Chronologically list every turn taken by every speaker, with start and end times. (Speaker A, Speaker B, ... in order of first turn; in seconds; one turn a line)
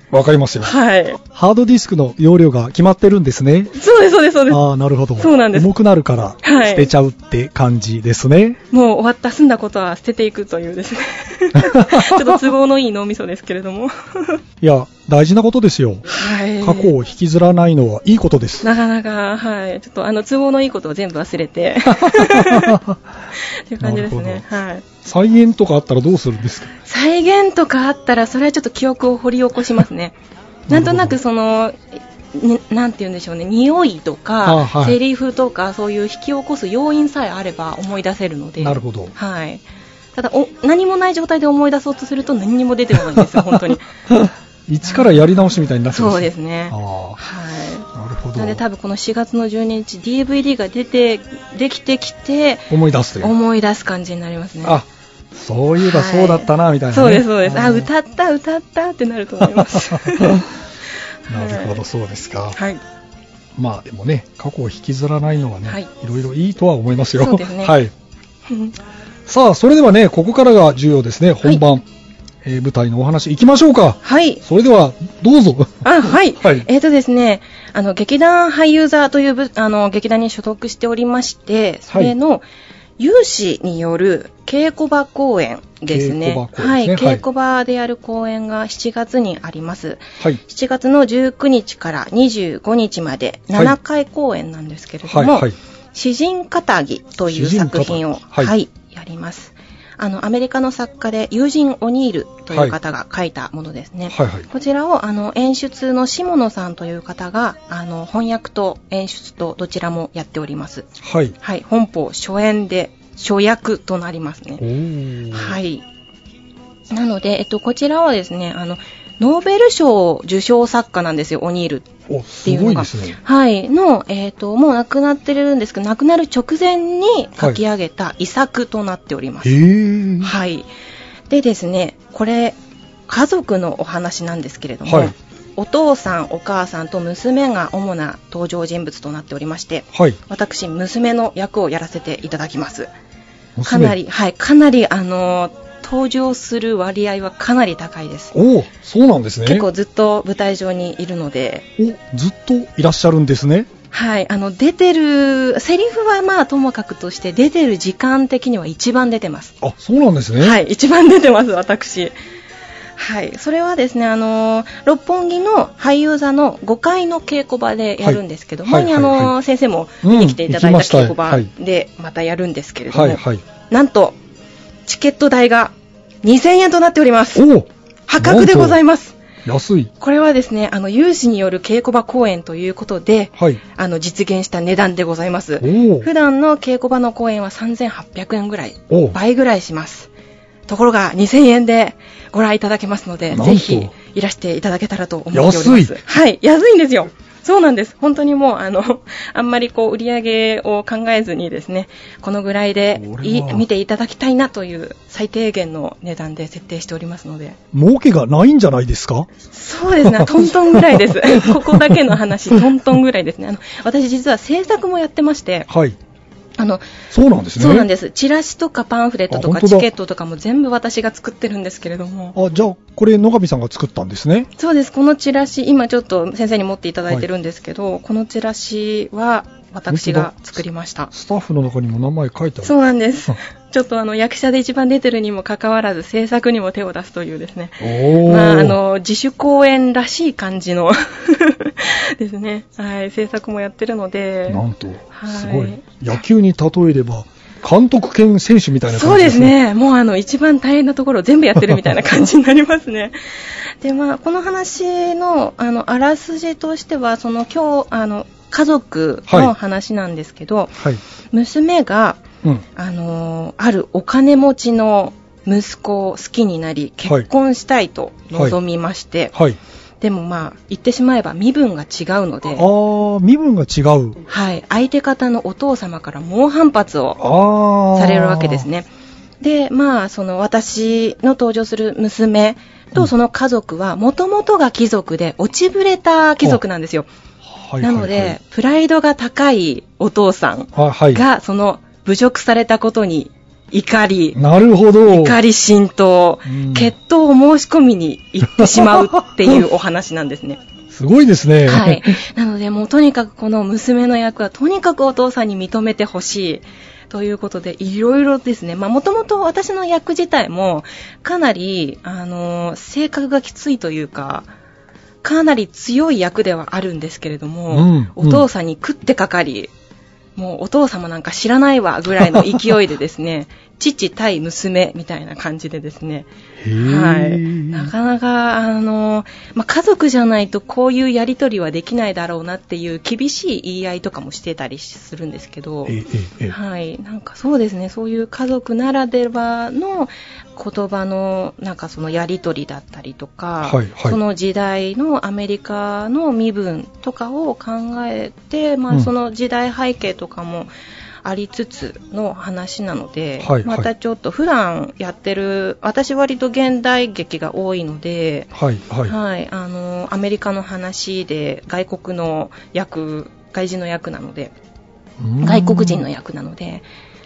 Speaker A: 0.1-3.7
Speaker B: 0.6-1.2
Speaker B: 3.8-4.6
Speaker A: 4.5-8.6
Speaker B: 5.2-5.7
Speaker B: 6.4-6.9
Speaker B: 8.7-14.4
Speaker A: 11.6-12.4
Speaker A: 14.6-18.7
Speaker B: 16.1-16.9
Speaker B: 18.6-22.8
Speaker A: 21.9-23.0
Speaker B: 23.4-24.9
Speaker A: 23.8-24.4
Speaker A: 25.0-26.7
Speaker B: 26.9-30.1
Speaker A: 30.7-31.2
Speaker B: 30.7-43.9
Speaker A: 34.4-35.0
Speaker A: 38.6-39.1
Speaker A: 43.2-47.2
Speaker B: 44.9-45.3
Speaker B: 45.9-54.8
Speaker A: 47.9-48.6
Speaker A: 52.7-53.3
Speaker A: 54.6-57.9
Speaker B: 55.8-60.4
Speaker A: 59.4-60.5
Speaker B: 61.3-61.8
Speaker A: 61.3-62.6
Speaker B: 62.5-62.8
Speaker A: 63.6-67.9
Speaker B: 67.2-67.8
Speaker B: 68.5-68.7
Speaker A: 69.3-71.9
Speaker A: 72.4-76.7
Speaker B: 74.0-74.4
Speaker B: 75.8-82.5
Speaker A: 81.9-82.2
Speaker B: 83.0-110.9
Speaker A: 85.9-87.2
Speaker A: 95.1-95.6
Speaker A: 97.3-98.5
Speaker A: 102.5-102.8
Speaker A: 104.1-104.5
Speaker A: 111.0-111.4
Speaker B: 111.4-114.6
Speaker A: 114.6-115.6
Speaker B: 115.3-115.8
Speaker B: 116.9-121.9
Speaker A: 122.1-123.2
Speaker B: 122.5-129.6
Speaker A: 129.4-130.3
Speaker B: 130.2-130.7
Speaker B: 131.3-142.9
Speaker A: 134.9-135.1
Speaker A: 139.9-140.2
Speaker A: 143.6-144.0
Speaker B: 143.7-148.3
Speaker A: 148.3-149.7
Speaker B: 149.4-151.7
Speaker A: 151.8-153.7
Speaker B: 153.9-159.6
Speaker A: 159.6-160.6
Speaker B: 160.4-162.2
Speaker B: 163.0-174.2
Speaker A: 168.0-169.3
Speaker A: 170.0-171.5
Speaker A: 172.9-173.4
Speaker B: 174.9-177.5
Speaker A: 177.3-178.8
Speaker B: 178.1-179.2
Speaker A: 179.4-179.9
Speaker B: 180.0-190.1
Speaker A: 185.6-186.1
Speaker A: 188.9-189.2
Speaker B: 190.7-207.6
Speaker A: 193.3-193.9
Speaker A: 195.3-196.0
Speaker A: 202.9-203.7
Speaker A: 207.7-209.3
Speaker B: 209.5-215.7
Speaker A: 210.0-212.0
Speaker A: 215.7-216.0
Speaker B: 216.6-216.8
Speaker A: 217.1-217.9
Speaker B: 217.6-222.4
Speaker A: 219.3-219.9
Speaker A: 222.3-224.5
Speaker B: 224.6-231.1
Speaker A: 229.9-232.8
Speaker B: 232.6-245.9
Speaker A: 237.8-238.8
Speaker A: 244.5-249.6
Speaker B: 248.9-260.8
Speaker A: 259.3-259.5
Speaker B: 261.3-262.2
Speaker B: 262.8-269.3
Speaker A: 269.3-269.6
Speaker B: 270.0-272.7
Speaker A: 272.6-274.2
Speaker B: 274.3-277.2
Speaker A: 277.2-278.7
Speaker B: 277.9-278.9
Speaker B: 279.4-287.1
Speaker A: 287.4-288.4
Speaker B: 287.8-294.4
Speaker A: 290.8-291.2
Speaker A: 294.4-295.4
Speaker B: 295.1-300.6
Speaker A: 296.5-296.9
Speaker A: 298.5-299.6
Speaker A: 300.9-302.2
Speaker B: 301.7-314.5
Speaker B: 315.2-319.7
Speaker A: 317.7-318.4
Speaker B: 320.4-336.0
Speaker A: 322.2-322.7
Speaker A: 326.6-327.9
Speaker A: 335.9-336.6
Speaker B: 336.5-350.7
Speaker A: 343.6-344.2
Speaker B: 351.2-358.5
Speaker A: 353.4-353.9
Speaker A: 358.5-359.1
Speaker B: 359.1-364.5
Speaker A: 365.2-366.1
Speaker B: 365.4-366.9